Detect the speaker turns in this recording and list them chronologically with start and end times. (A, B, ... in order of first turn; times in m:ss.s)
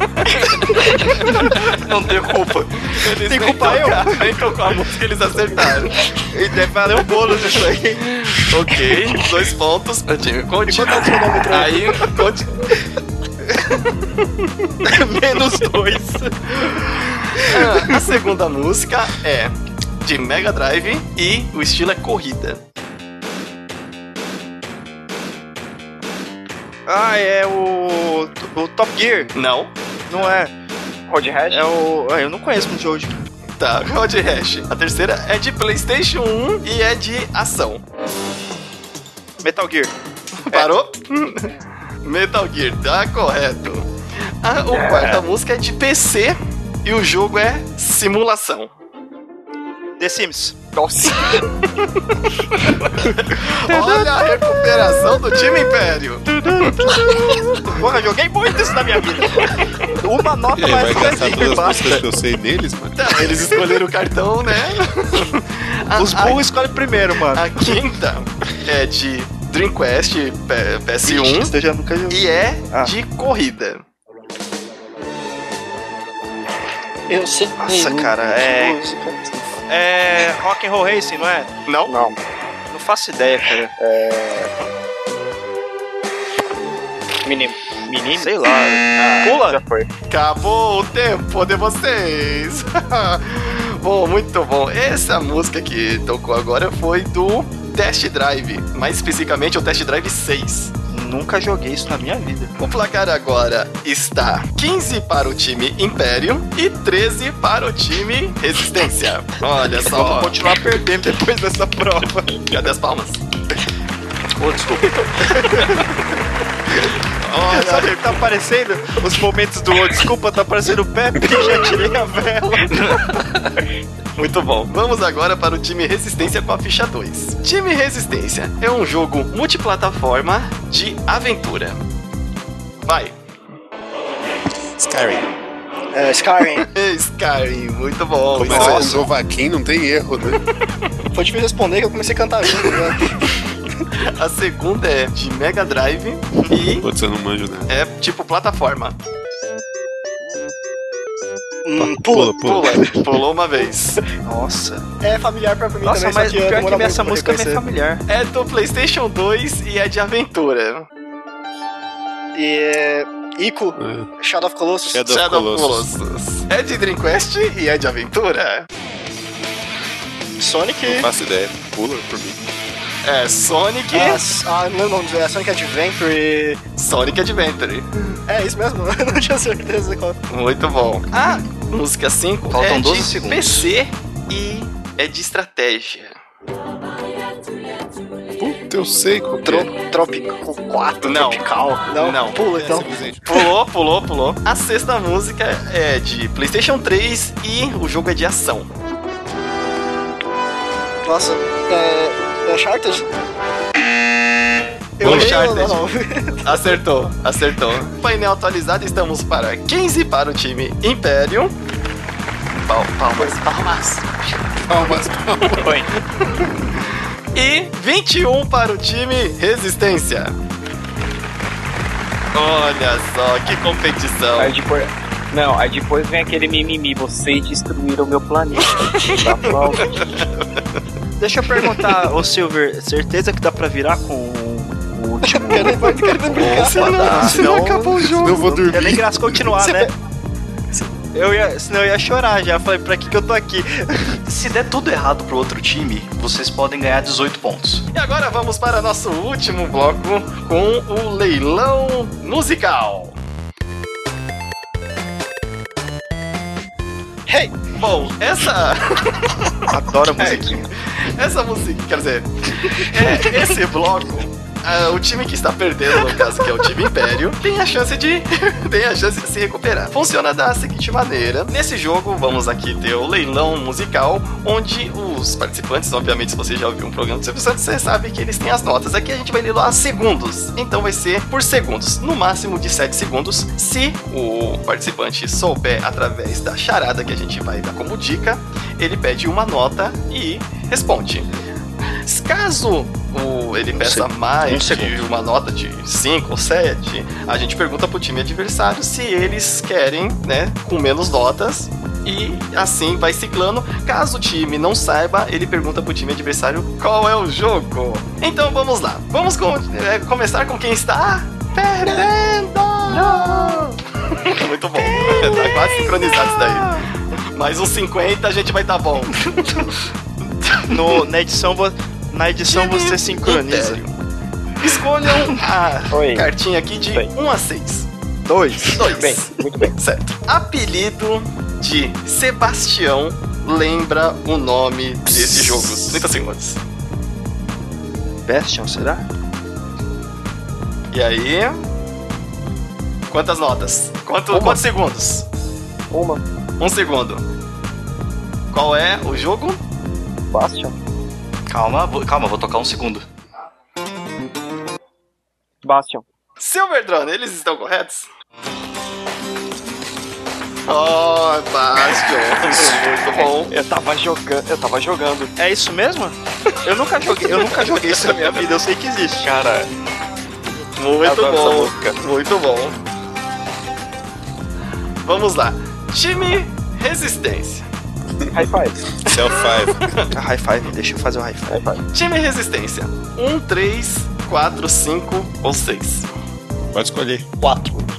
0:00.2-0:01.8 A
0:01.3-0:04.3 B
0:02.8-0:06.1 A
0:06.2-0:08.5 B
0:08.1-0:12.7 A
0:10.7-0:12.0 C
0:14.8-0:18.2 B
0:16.8-0:22.6 A
0:26.9-0:29.3 B
0:29.3-0:29.7 A
0:30.1-0:30.5 B
0:31.1-0:31.6 D
0:31.5-0:33.1 B
0:33.6-0:37.8 A
0:39.4-0:39.9 B
0:40.4-0:43.9 A
0:44.4-0:48.7 A
0:44.7-0:45.2 D
0:50.0-0:50.5 B
0:50.7-0:51.5 D
0:52.9-0:57.4 A
0:53.7-0:54.1 B
0:56.4-1:02.0 B
1:00.5-1:03.2 E
1:03.0-1:06.4 A
1:05.9-1:07.8 B
1:07.3-1:11.5 A
1:11.0-1:12.9 B
1:12.1-1:13.8 A
1:17.1-1:19.6 C
1:17.6-1:18.8 B
1:19.7-1:21.5 B
1:21.6-1:22.0 A
1:21.9-1:22.2 D
1:22.7-1:23.7 B
1:23.8-1:24.5 D
1:27.2-1:28.3 D
1:28.1-1:29.6 B
1:29.0-1:29.3 A
1:29.0-1:29.9 D
1:30.1-1:40.7 A
1:40.9-1:42.5 B
1:42.6-1:50.4 A
1:49.8-1:52.4 B
1:52.5-1:53.2 A
1:54.4-1:54.9 F
1:55.3-1:55.7 B
1:57.2-1:58.2 A
1:57.5-2:03.1 B
2:04.2-2:11.8 A
2:12.8-2:13.1 A
2:14.7-2:15.3 E
2:15.9-2:16.7 C
2:16.7-2:19.1 A
2:18.3-2:20.4 E
2:18.5-2:18.9 B
2:21.1-2:23.3 C
2:24.0-2:26.9 A
2:26.8-2:27.7 E
2:27.7-2:29.0 A
2:31.6-2:32.9 C
2:31.8-2:32.8 E
2:32.4-2:34.0 A
2:34.2-2:34.8 B
2:35.0-2:37.6 C
2:35.8-2:38.0 B
2:38.1-2:40.9 A
2:42.3-2:45.1 C
2:43.8-2:44.1 E
2:44.9-2:45.9 E
2:45.0-2:48.7 A
2:50.4-2:51.1 C
2:50.8-2:52.4 E
2:53.0-2:54.2 A
2:53.9-2:56.6 C
2:56.8-2:58.2 A
2:58.3-3:00.2 C
3:00.3-3:06.2 A
3:02.5-3:03.6 F
3:08.4-3:09.7 E
3:09.4-3:12.9 C
3:11.0-3:12.4 A
3:12.4-3:13.4 E
3:13.3-3:18.7 A
3:21.0-3:23.0 C
3:25.0-3:26.7 C
3:25.0-3:25.9 A
3:25.0-3:25.3 E
3:26.4-3:31.5 A
3:32.6-3:34.2 A
3:34.7-3:35.7 E
3:35.5-3:35.9 D
3:36.4-3:40.4 A
3:42.3-3:44.5 A
3:44.4-3:50.0 D
3:49.8-3:50.3 A
3:51.2-3:59.9 B
3:55.2-3:57.6 C
3:56.3-3:58.6 A
3:58.0-3:59.5 E
3:59.6-3:59.9 C
4:01.1-4:04.2 B
4:04.3-4:07.8 F
4:07.9-4:13.1 A
4:17.3-4:17.6 C
4:17.8-4:19.3 A
4:19.7-4:20.7 B
4:20.2-4:51.3 A
4:52.0-5:19.3 A
4:53.8-4:55.0 F
5:12.9-5:13.7 D
5:20.7-5:23.8 B
5:22.5-5:23.9 A
5:24.6-5:27.9 A
5:25.9-5:26.3 D
5:28.2-5:28.8 B
5:28.7-5:36.6 A
5:28.8-5:29.7 D
5:38.2-5:39.0 B
5:40.9-5:41.6 A
5:43.1-5:45.2 A
5:44.3-5:44.6 D
5:45.9-5:46.2 D
5:46.6-5:47.2 A
5:48.5-5:49.6 A
5:50.3-5:50.7 D
5:51.5-5:53.0 F
5:55.6-5:56.0 D
5:56.4-5:58.1 A
6:00.7-6:03.5 A
6:03.1-6:05.3 D
6:05.4-6:09.3 B
6:09.2-6:09.7 D
6:10.8-6:12.8 A
6:11.0-6:12.0 D
6:15.0-6:17.6 A
6:18.3-6:18.9 D
6:19.0-6:19.8 E
6:20.1-6:21.6 B
6:21.5-6:21.8 D
6:21.9-6:26.1 A
6:26.7-6:27.3 E
6:27.4-6:27.9 C